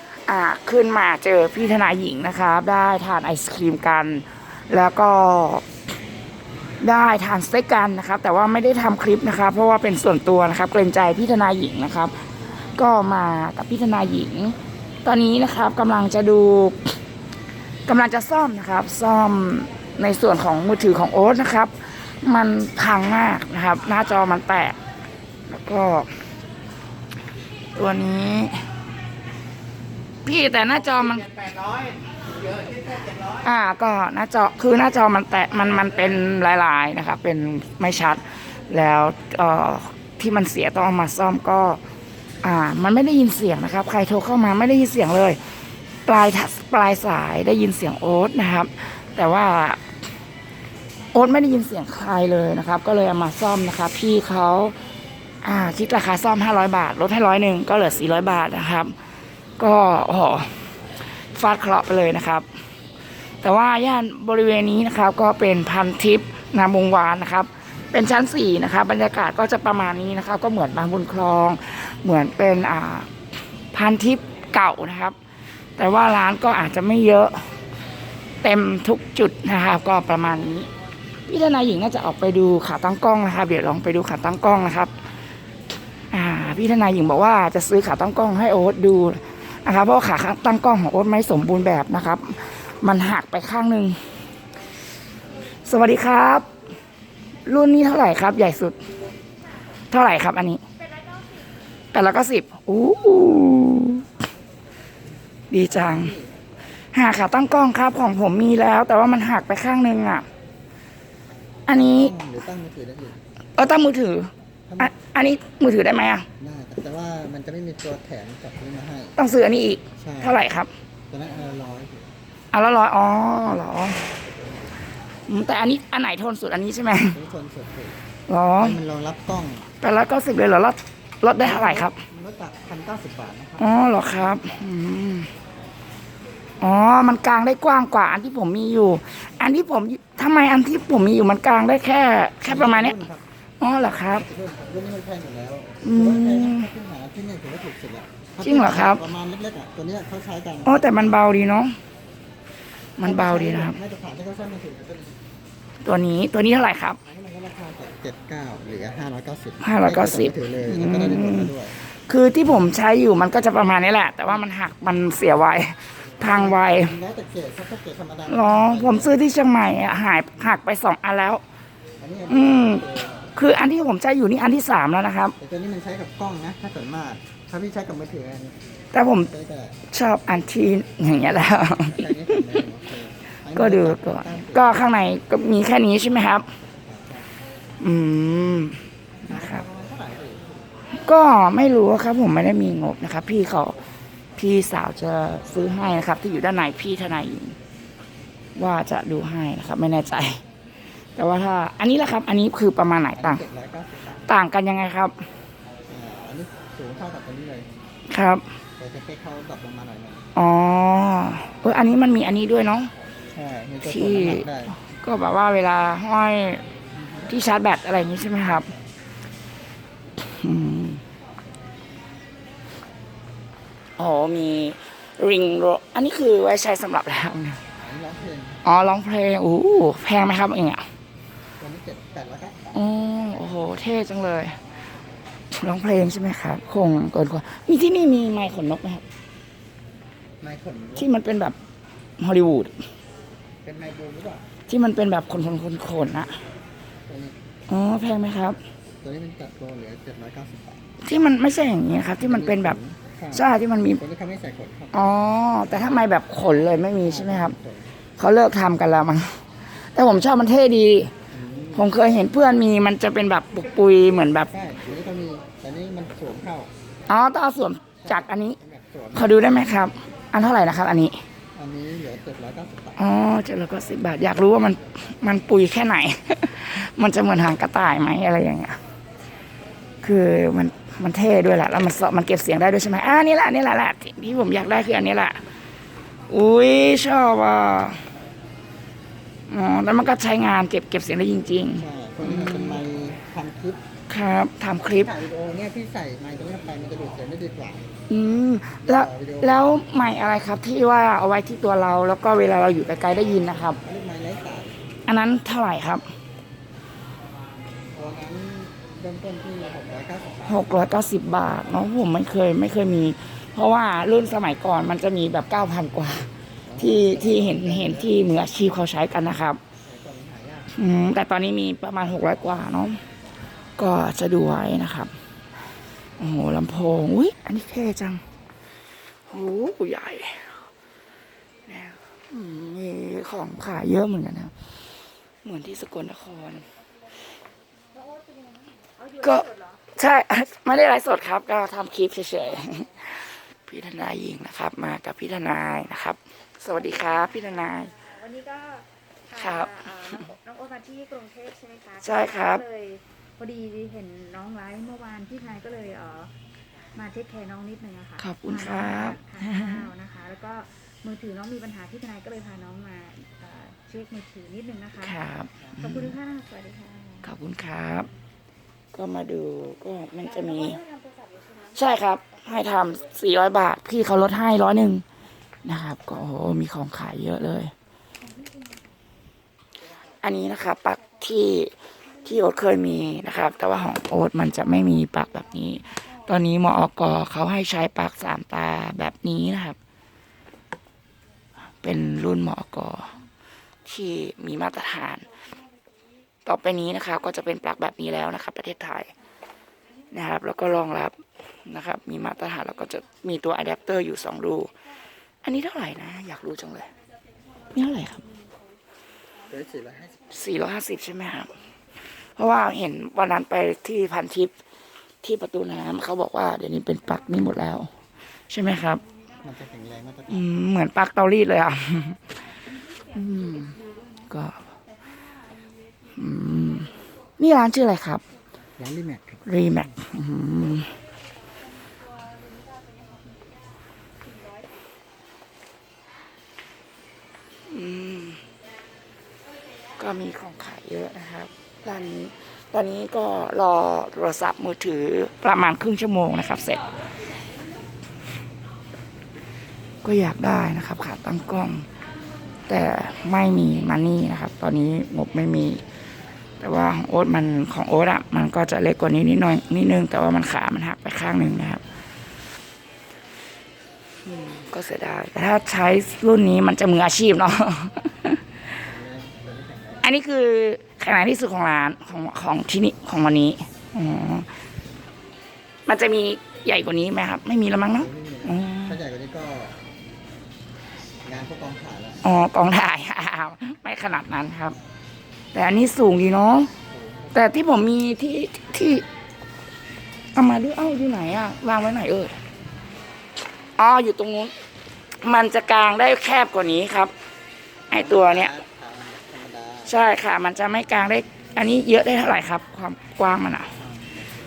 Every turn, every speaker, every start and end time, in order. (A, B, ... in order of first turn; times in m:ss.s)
0:00.2-0:05.6 A
0:06.8-0:12.1 A
0:12.7-0:16.9 A
0:17.9-0:24.8 A
0:25.5-0:26.2 A
0:27.7-0:28.7 A
0:30.2-0:31.5 A
0:33.2-0:41.8 A
0:42.4-0:45.4 A
0:46.1-0:49.8 A
0:51.1-0:54.8 A
0:55.4-0:59.0 A
0:59.6-1:00.7 A
1:01.3-1:02.5 A
1:03.4-1:13.1 A
1:13.7-1:15.2 A
1:15.8-1:17.5 A
1:18.4-1:20.7 A
1:21.3-1:24.9 A
1:26.1-1:34.0 A
1:35.7-1:36.5 A
1:37.5-1:38.8 A
1:39.9-1:40.6 A
1:41.9-1:44.1 A
1:45.5-1:46.1 A
1:45.6-1:46.3 B
1:46.9-1:50.3 A
1:51.7-1:52.2 A
1:51.7-1:53.2 B
1:53.6-1:56.3 A
1:54.7-1:54.9 B
1:56.4-1:59.2 B
1:59.2-2:00.7 A
2:00.0-2:00.4 B
2:01.1-2:02.1 B
2:02.5-2:04.1 A
2:05.3-2:07.2 A
2:07.1-2:08.0 B
2:08.3-2:08.8 A
2:08.6-2:09.7 B
2:09.8-2:12.0 A
2:11.4-2:14.5 B
2:13.6-2:15.3 A
2:16.6-2:23.0 A
2:22.4-2:23.2 B
2:23.6-2:24.3 A
2:24.1-2:31.2 B
2:25.8-2:26.7 A
2:28.4-2:29.1 A
2:30.6-2:31.8 A
2:33.0-2:33.8 A
2:33.0-2:35.2 B
2:35.8-2:37.0 A
2:37.0-2:41.8 B
2:39.6-2:47.0 A
2:46.2-2:49.2 B
2:48.3-2:51.4 A
2:52.0-2:53.3 B
2:52.3-2:55.4 A
2:55.4-2:58.6 B
2:58.9-2:59.3 A
2:59.3-2:59.8 B
2:59.9-3:02.4 A
3:01.7-3:04.7 B
3:03.5-3:06.5 A
3:06.8-3:07.3 B
3:07.8-3:09.6 A
3:09.3-3:10.9 B
3:11.0-3:13.8 A
3:14.4-3:17.6 A
3:18.6-3:20.4 A
3:21.2-3:23.4 A
3:23.2-3:24.3 B
3:24.3-3:25.2 A
3:25.9-3:27.7 B
3:28.1-3:28.4 A
3:28.8-3:30.3 B
3:30.4-3:32.9 A
3:33.2-3:34.8 B
3:33.8-3:36.6 A
3:37.0-3:37.3 B
3:37.3-3:38.7 A
3:40.3-3:41.0 A
3:44.0-3:47.6 A
3:47.8-3:48.6 B
3:48.6-3:50.9 A
3:51.6-3:52.8 B
3:52.7-3:54.6 A
3:55.5-3:59.0 A
4:00.4-4:01.1 B
4:01.0-4:01.6 A
4:02.2-4:02.8 A
4:03.6-4:04.5 B
4:04.7-4:06.4 A
4:07.1-4:07.4 B
4:07.7-4:08.6 A
4:09.0-4:10.9 B
4:11.0-4:12.8 A
4:12.2-4:15.1 B
4:13.3-4:14.0 A
4:14.9-4:17.6 A
4:15.6-4:16.1 B
4:17.0-4:17.9 B
4:18.2-4:19.4 A
4:19.9-4:21.1 A
4:21.3-4:21.9 B
4:21.7-4:24.5 A
4:24.5-4:26.7 B
4:27.1-4:28.6 A
4:28.0-4:29.8 B
4:29.1-4:31.2 A
4:31.6-4:33.0 B
4:33.0-4:38.8 A
4:40.0-4:45.4 A
4:46.3-4:48.1 A
4:49.5-4:52.8 A
4:51.7-4:53.8 B
4:54.1-4:55.1 A
4:54.9-4:57.9 B
4:58.1-5:03.8 A
4:58.8-4:59.8 B
5:03.8-5:04.9 B
5:05.1-5:06.1 A
5:07.9-5:10.9 B
5:10.5-5:19.6 A
5:16.7-5:18.2 B
5:19.8-5:20.7 B
5:20.7-5:23.0 A
5:23.8-5:25.1 A
5:26.2-5:28.2 A
5:29.3-5:30.6 A
5:31.7-5:34.5 A
5:35.4-5:36.7 A
5:38.0-5:39.8 C
5:39.2-5:48.0 A
5:48.0-5:56.3 C
5:49.4-5:50.3 A
5:52.0-5:52.6 A
5:57.0-6:05.0 C
5:58.2-5:59.9 A
6:05.0-6:06.2 A
6:06.0-6:07.2 C
6:07.2-6:08.1 A
6:08.9-6:10.8 A
6:10.7-6:11.4 C
6:11.7-6:15.0 A
6:15.6-6:17.7 A
6:20.2-6:21.7 A
6:22.2-6:29.8 A
6:31.8-6:33.1 A
6:33.8-6:35.3 A
6:36.4-6:39.1 A
6:40.1-6:44.7 A
6:45.4-6:46.9 A
6:47.7-6:48.2 A
6:49.5-6:50.3 B
6:50.3-6:51.5 A
6:52.4-6:54.5 A
6:55.2-6:57.9 A
6:58.5-6:59.0 A
6:59.4-7:00.5 B
7:00.3-7:02.2 A
7:03.1-7:04.6 A
7:06.2-7:08.2 A
7:08.8-7:09.4 B
7:09.5-7:10.9 A
7:17.7-7:18.4 A
7:20.0-7:26.9 A
7:30.0-7:31.9 A
7:32.7-7:35.8 A
7:36.6-7:41.8 A
7:44.2-7:48.4 A
7:48.8-7:50.1 B
7:50.0-7:54.5 A
7:55.9-7:59.0 A
7:57.9-7:59.8 B
8:01.2-8:02.3 B
8:02.2-8:04.8 A
8:05.5-8:06.7 A
8:06.9-8:07.4 B
8:07.3-8:09.0 A
8:10.3-8:12.4 A
8:13.8-8:14.5 A
8:15.2-8:17.1 A
8:17.9-8:18.6 A
8:17.9-8:20.0 B
8:19.9-8:23.7 A
8:23.7-8:24.3 B